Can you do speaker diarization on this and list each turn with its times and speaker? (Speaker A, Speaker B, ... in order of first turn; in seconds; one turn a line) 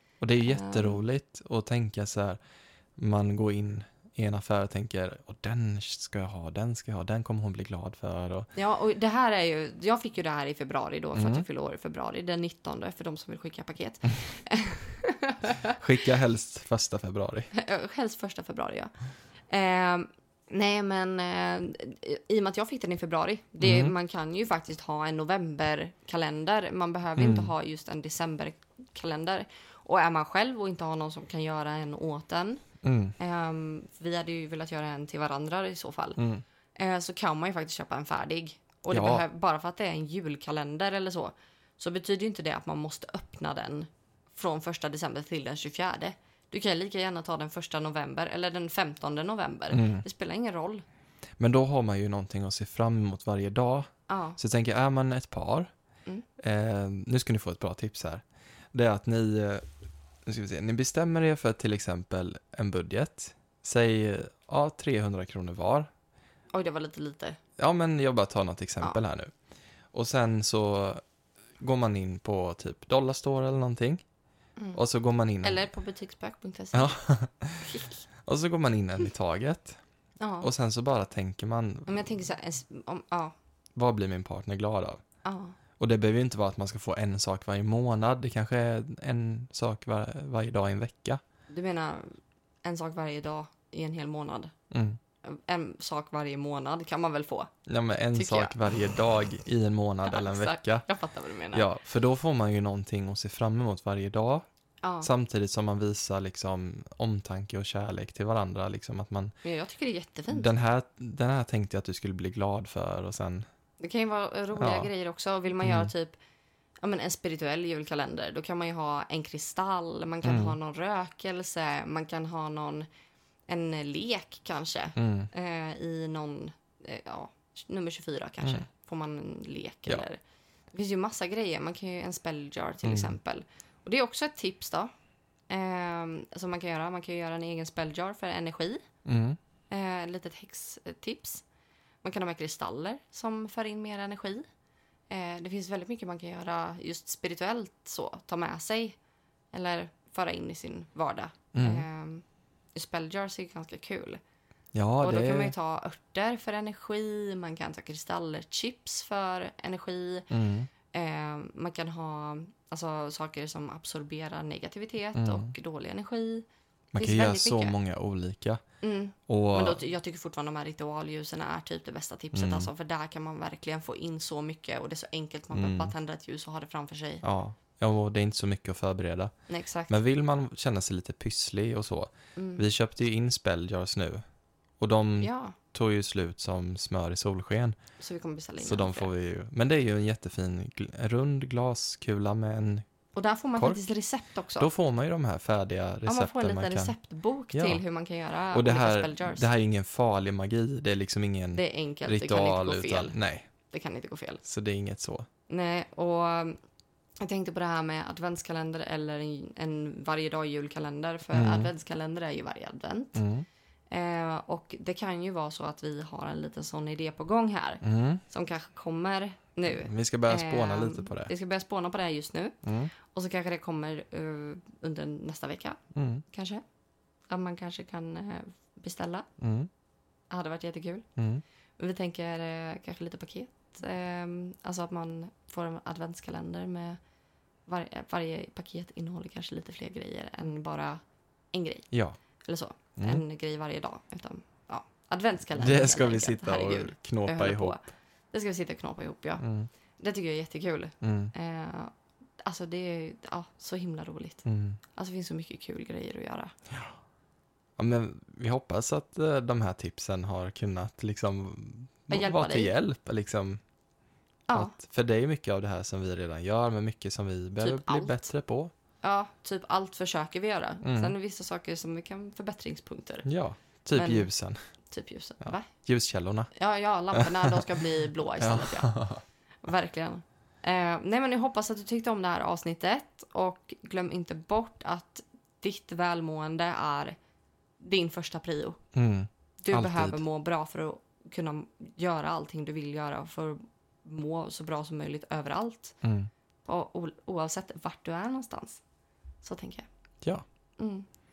Speaker A: 0.2-2.4
Speaker B: 0.4-1.0
Speaker A: 3.0-8.5
Speaker B: 8.6-15.8
Speaker A: 11.2-11.4
Speaker A: 15.7-17.5
Speaker B: 17.5-18.9
Speaker B: 19.5-32.6
Speaker A: 23.6-23.9
Speaker A: 27.2-27.5
Speaker A: 32.8-33.1
Speaker B: 33.2-36.2
Speaker A: 36.2-36.4
Speaker B: 36.8-50.8
Speaker A: 38.9-39.2
Speaker A: 49.7-50.0
Speaker A: 51.4-55.7
Speaker B: 54.1-54.4
Speaker A: 56.4-59.6
Speaker A: 60.2-65.9
Speaker B: 66.5-67.4
Speaker A: 67.6-69.3
Speaker A: 69.9-71.0
Speaker A: 71.6-74.0
Speaker A: 74.7-75.6
Speaker B: 75.4-76.9
Speaker A: 76.7-79.8
Speaker B: 77.7-78.0
Speaker B: 80.2-80.5
Speaker A: 80.4-82.0
Speaker B: 81.9-83.3
Speaker A: 83.8-85.0
Speaker B: 85.2-85.5
Speaker A: 85.8-91.2
Speaker B: 91.5-94.5
Speaker A: 94.7-95.0
Speaker B: 95.2-97.5
Speaker A: 97.7-100.8
Speaker B: 98.1-98.8
Speaker B: 100.1-101.7
Speaker A: 101.5-104.4
Speaker B: 104.8-105.1
Speaker A: 105.0-109.3
Speaker B: 109.4-110.5
Speaker A: 110.3-113.5
Speaker B: 113.8-116.1
Speaker A: 114.5-114.9
Speaker A: 115.6-115.9
Speaker B: 116.8-122.9
Speaker A: 120.2-120.5
Speaker B: 123.5-130.2
Speaker A: 125.0-125.3
Speaker B: 130.7-134.9
Speaker A: 132.8-133.1
Speaker B: 135.5-138.8
Speaker A: 139.0-139.4
Speaker B: 139.7-141.4
Speaker B: 142.0-144.5
Speaker B: 145.1-149.0
Speaker B: 149.5-152.2
Speaker A: 151.5-151.8
Speaker B: 152.7-154.2
Speaker A: 154.7-155.5
Speaker B: 155.0-160.3
Speaker A: 160.3-160.7
Speaker B: 160.9-166.4
Speaker A: 165.2-165.5
Speaker A: 166.9-168.6
Speaker B: 167.0-167.7
Speaker B: 168.8-177.2
Speaker A: 169.3-169.8
Speaker A: 172.3-172.7
Speaker A: 175.5-175.9
Speaker A: 177.2-179.3
Speaker B: 179.5-179.9
Speaker A: 179.9-184.2
Speaker B: 182.4-182.6
Speaker A: 184.8-187.8
Speaker B: 185.2-185.6
Speaker B: 188.0-189.1
Speaker A: 188.6-192.8
Speaker B: 193.1-194.7
Speaker A: 193.6-193.8
Speaker A: 194.6-196.9
Speaker B: 196.0-199.4
Speaker A: 197.5-197.8
Speaker A: 198.5-203.5
Speaker B: 201.5-203.1
Speaker B: 203.7-204.4
Speaker A: 204.4-205.3
Speaker B: 205.5-206.6
Speaker B: 207.2-213.2
Speaker A: 211.3-211.7
Speaker A: 213.1-213.4
Speaker B: 213.9-225.8
Speaker A: 217.8-218.2
Speaker A: 219.7-221.3
Speaker A: 222.6-222.9
Speaker A: 225.9-226.2
Speaker B: 226.3-226.6
Speaker B: 227.3-229.3
Speaker A: 229.4-229.7
Speaker B: 230.3-231.1
Speaker A: 231.2-231.4
Speaker B: 231.8-237.0
Speaker B: 237.7-241.0
Speaker B: 241.5-241.9
Speaker A: 241.9-242.2
Speaker B: 242.4-247.8
Speaker A: 242.9-243.2
Speaker A: 245.5-247.8
Speaker B: 248.3-249.4
Speaker A: 249.4-249.7
Speaker B: 250.0-256.5
Speaker A: 251.0-251.3
Speaker A: 254.4-254.8
Speaker A: 257.8-263.6
Speaker B: 262.1-262.7
Speaker B: 264.5-264.7
Speaker A: 264.5-268.7
Speaker B: 267.6-268.2
Speaker B: 269.0-273.2
Speaker A: 270.8-271.1
Speaker A: 273.2-274.6
Speaker B: 273.9-274.3
Speaker B: 274.9-275.7
Speaker A: 275.4-276.5
Speaker B: 276.5-278.9
Speaker A: 277.1-277.7
Speaker A: 278.4-279.2
Speaker B: 279.6-287.1
Speaker B: 287.8-288.8
Speaker A: 288.9-290.2
Speaker B: 289.6-296.0
Speaker A: 296.0-296.3
Speaker B: 296.6-298.8
Speaker B: 299.4-299.9
Speaker B: 300.8-301.1